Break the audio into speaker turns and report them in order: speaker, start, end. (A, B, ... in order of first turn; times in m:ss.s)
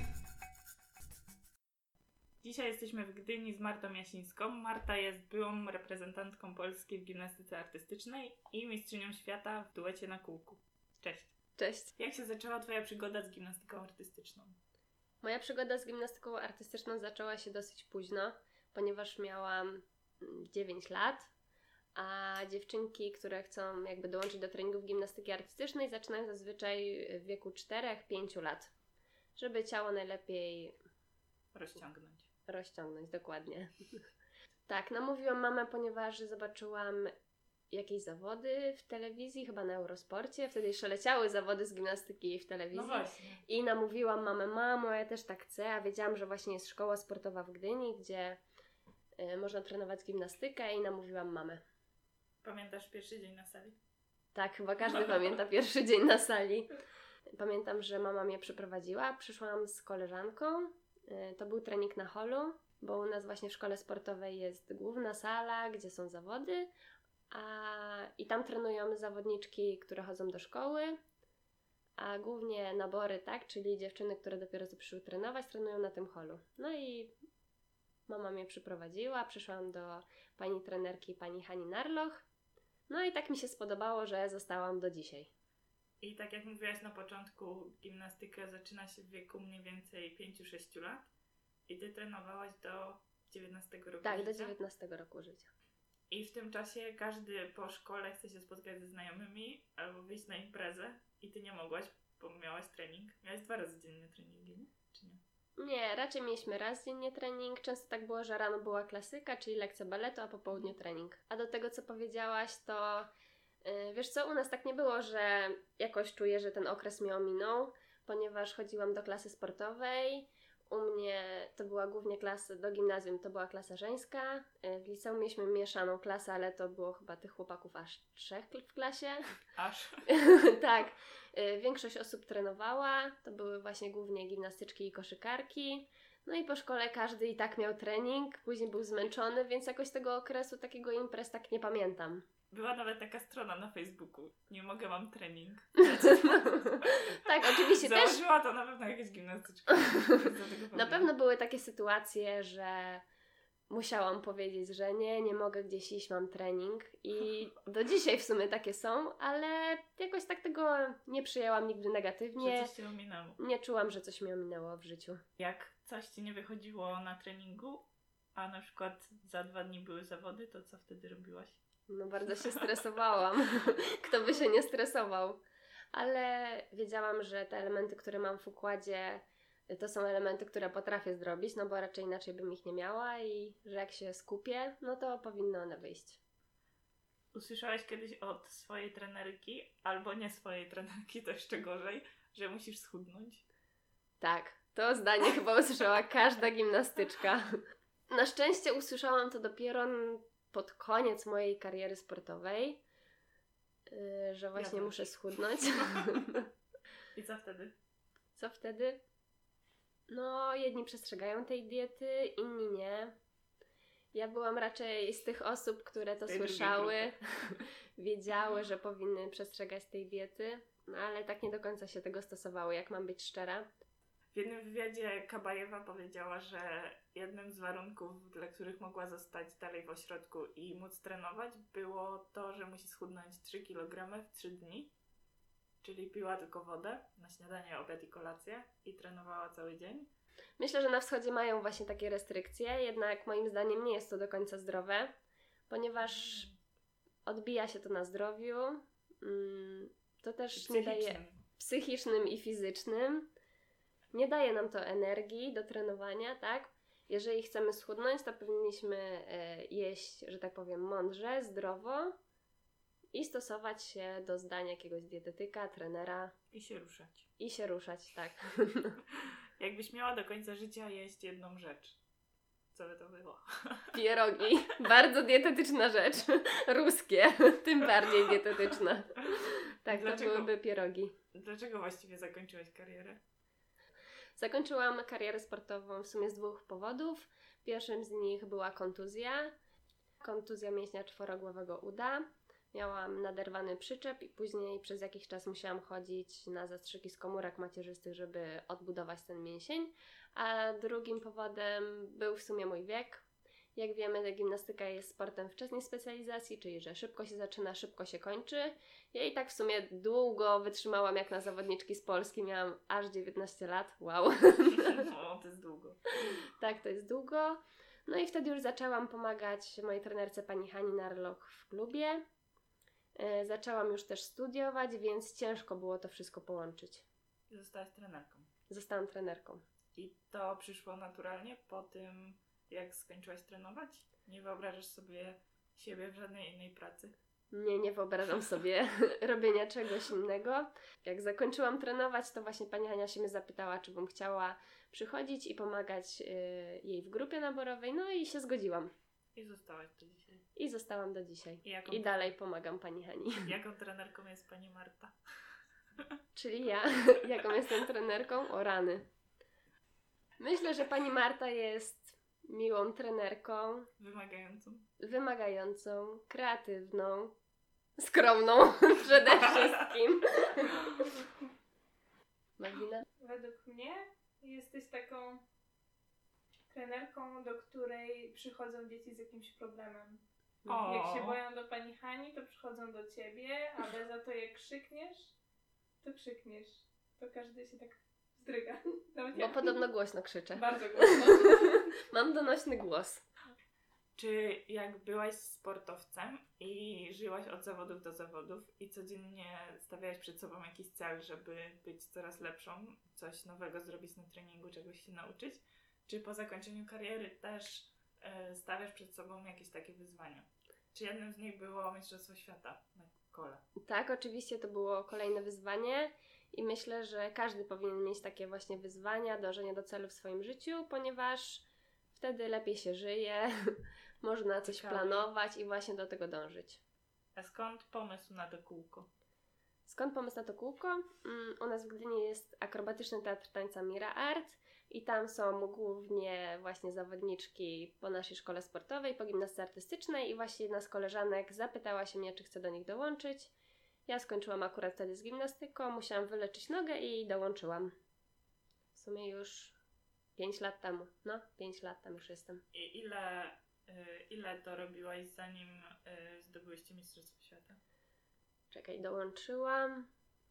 0:02.4-0:11.3 A
0:11.6-0:11.9 B
0:12.0-0:14.6 A
0:15.2-0:21.3 B
0:22.0-0:28.7 B
0:29.4-0:30.7 B
0:31.5-0:32.3 A
0:32.5-0:33.7 B
0:34.7-0:37.1 B
0:37.7-0:48.4 B
0:42.7-0:43.4 A
0:49.2-0:51.6 B
0:52.4-0:53.8 A
0:54.3-0:56.7 B
0:54.9-0:55.3 A
0:57.4-1:06.7 B
1:07.3-1:11.0 B
1:12.0-1:17.1 B
1:18.1-1:22.2 B
1:22.9-1:25.3 B
1:26.0-1:31.1 A
1:31.7-1:34.5 A
1:34.0-1:35.5 B
1:36.1-1:45.2 A
1:45.6-1:53.1 B
1:53.6-2:09.2 B
2:09.6-2:10.0 A
2:10.1-2:22.2 B
2:22.5-2:31.1 A
2:25.8-2:28.2 B
2:30.7-2:33.0 B
2:33.7-2:42.7 B
2:42.4-2:43.4 A
2:43.4-2:45.2 B
2:45.4-2:51.6 A
2:51.9-2:55.4 B
2:52.4-2:52.6 A
2:55.9-3:06.2 B
3:07.3-3:13.4 A
3:14.2-3:22.8 B
3:23.9-3:26.4 B
3:24.5-3:26.4 A
3:27.1-3:27.7 A
3:28.4-3:29.0 B
3:30.1-3:33.1 B
3:34.1-3:43.7 B
3:36.2-3:37.6 A
3:44.3-3:54.9 A
3:55.8-4:00.1 A
4:00.6-4:05.1 B
4:05.7-4:06.5 B
4:06.0-4:06.6 A
4:07.2-4:13.3 B
4:10.5-4:11.4 A
4:14.1-4:22.2 B
4:23.1-4:26.3 B
4:26.5-4:27.3 A
4:27.4-4:29.0 B
4:29.1-4:32.0 A
4:32.7-4:33.9 A
4:33.9-4:41.1 B
4:39.9-4:40.5 A
4:41.3-4:43.2 A
4:44.4-4:49.5 B
4:50.2-5:03.2 B
5:03.8-5:15.1 B
5:14.7-5:16.0 A
5:16.2-5:22.2 B
5:23.2-5:27.0 B
5:27.5-5:28.5 A
5:28.7-5:29.6 B
5:29.9-5:37.1 A
5:37.5-5:48.9 B
5:49.3-5:50.4 A
5:50.6-5:53.5 B
5:51.6-5:52.3 A
5:53.4-5:55.2 A
5:56.3-5:59.1 B
6:00.4-6:03.9 B
6:04.0-6:04.8 A
6:05.0-6:07.3 B
6:08.0-6:11.1 B
6:09.4-6:09.8 A
6:12.6-6:13.0 B
6:13.2-6:15.4 C
6:16.7-6:20.2 C
6:20.7-6:21.4 A
6:20.8-6:25.3 C
6:26.0-6:29.8 C
6:29.3-6:33.2 B
6:30.5-6:31.9 C
6:34.2-6:53.6 A
6:53.8-7:06.8 B
7:04.6-7:05.3 A
7:07.3-7:09.1 A
7:09.8-7:23.5 B
7:24.1-7:27.9 B
7:28.9-7:29.8 B
7:30.4-7:32.6 B
7:32.7-7:37.8 A
7:38.7-7:40.1 B